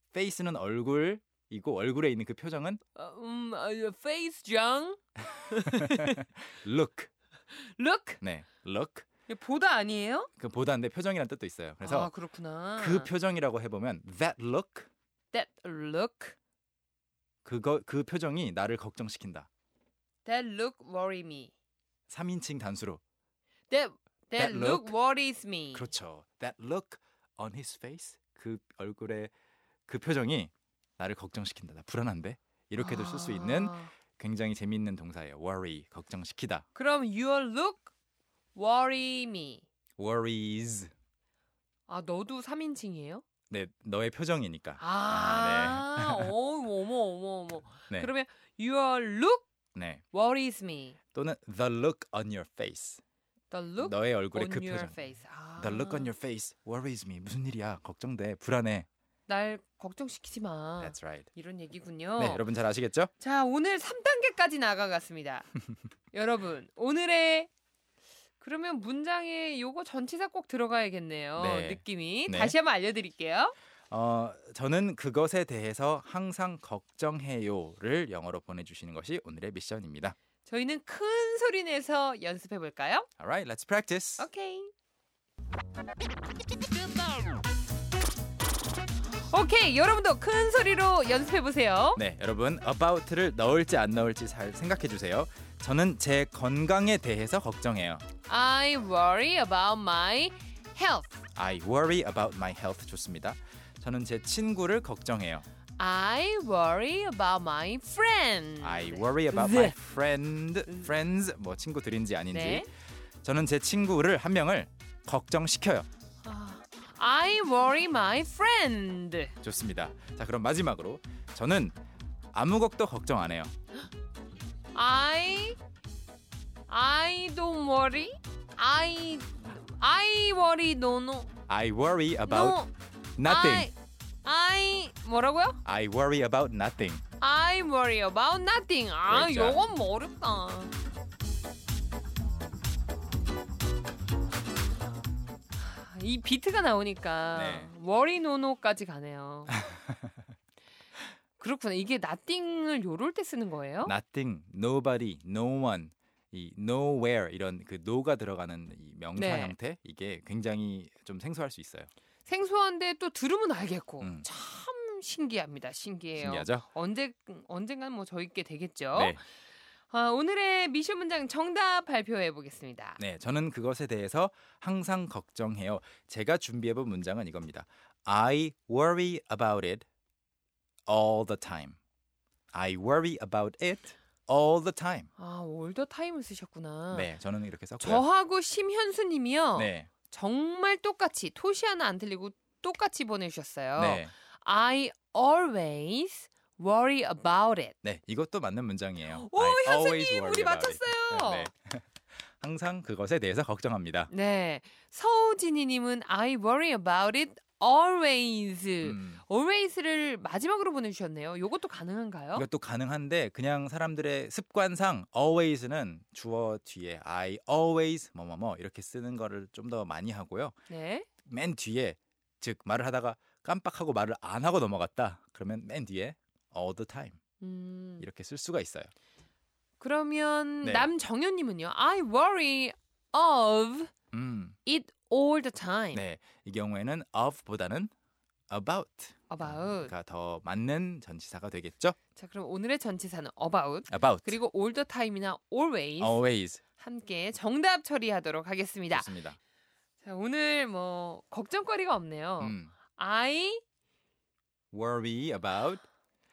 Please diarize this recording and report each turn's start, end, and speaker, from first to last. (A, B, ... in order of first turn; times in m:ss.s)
0:00.1-0:02.8 A
0:02.9-0:06.2 B
0:05.6-0:07.1 A
0:07.5-0:08.2 B
0:08.2-0:09.0 A
0:09.3-0:10.3 B
0:10.4-0:12.1 A
0:11.8-0:13.1 B
0:12.8-0:14.9 A
0:15.3-0:16.3 B
0:17.4-0:19.5 A
0:20.2-0:21.5 B
0:22.1-0:23.0 A
0:23.7-0:25.9 B
0:24.4-0:25.0 A
0:25.7-0:29.3 A
0:29.9-0:36.6 A
0:32.8-0:33.9 B
0:36.7-0:37.9 B
0:38.5-0:39.6 B
0:40.0-0:40.9 A
0:41.9-0:43.2 B
0:43.5-0:46.3 A
0:44.8-0:49.4 B
0:49.7-0:50.0 A
0:50.1-0:51.0 B
0:51.1-0:53.0 A
0:53.5-0:56.1 B
0:53.8-0:55.0 A
0:55.6-0:58.9 A
0:59.3-1:02.4 B
1:00.8-1:01.3 A
1:02.2-1:03.1 A
1:03.2-1:05.5 B
1:06.1-1:07.5 B
1:08.4-1:13.5 B
1:11.4-1:12.5 A
1:13.9-1:20.1 A
1:20.4-1:23.1 B
1:23.2-1:24.3 A
1:24.2-1:24.7 B
1:29.1-1:32.0 B
1:32.0-1:38.0 A
1:38.3-1:41.2 B
1:41.3-1:45.5 A
1:45.8-1:49.7 B
1:48.6-1:52.7 A
1:52.3-1:52.7 B
1:53.2-1:55.9 A
1:56.2-1:59.3 B
1:59.4-2:01.8 A
2:02.3-2:03.5 A
2:04.7-2:05.6 B
2:06.7-2:11.3 B
2:11.5-2:12.6 A
2:12.2-2:12.7 B
2:13.2-2:13.7 A
2:13.2-2:15.6 B
2:15.6-2:17.0 A
2:17.2-2:20.7 B
2:19.0-2:19.6 A
2:25.6-2:29.5 B
2:27.3-2:27.7 A
2:29.5-2:30.2 A
2:31.4-2:33.9 B
2:33.8-2:41.9 A
2:39.2-2:39.6 B
2:42.2-2:49.2 B
2:44.0-2:44.3 A
2:46.2-2:46.6 A
2:48.9-2:49.2 A
2:49.9-2:53.0 B
2:53.0-2:59.8 A
3:00.9-3:01.8 A
3:02.5-3:05.1 A
3:05.2-3:07.1 B
3:06.9-3:08.0 A
3:07.8-3:17.7 B
3:09.5-3:09.9 A
3:13.8-3:14.1 A
3:17.8-3:24.1 A
3:19.0-3:21.5 B
3:24.1-3:32.5 B
3:28.8-3:29.2 A
3:32.3-3:40.5 A
3:40.7-3:41.1 B
3:41.2-3:47.2 A
3:47.4-3:48.0 B
3:48.0-3:48.9 A
3:49.8-3:53.9 B
3:50.6-3:50.9 A
3:54.1-3:54.6 A
3:54.6-3:56.0 B
3:55.9-3:57.9 A
3:58.5-4:02.0 A
3:59.3-3:59.9 B
4:02.2-4:06.2 B
4:03.9-4:04.4 A
4:06.0-4:06.6 A
4:06.8-4:09.2 B
4:08.9-4:09.4 A
4:10.0-4:13.6 B
4:12.4-4:12.7 A
4:14.7-4:15.8 A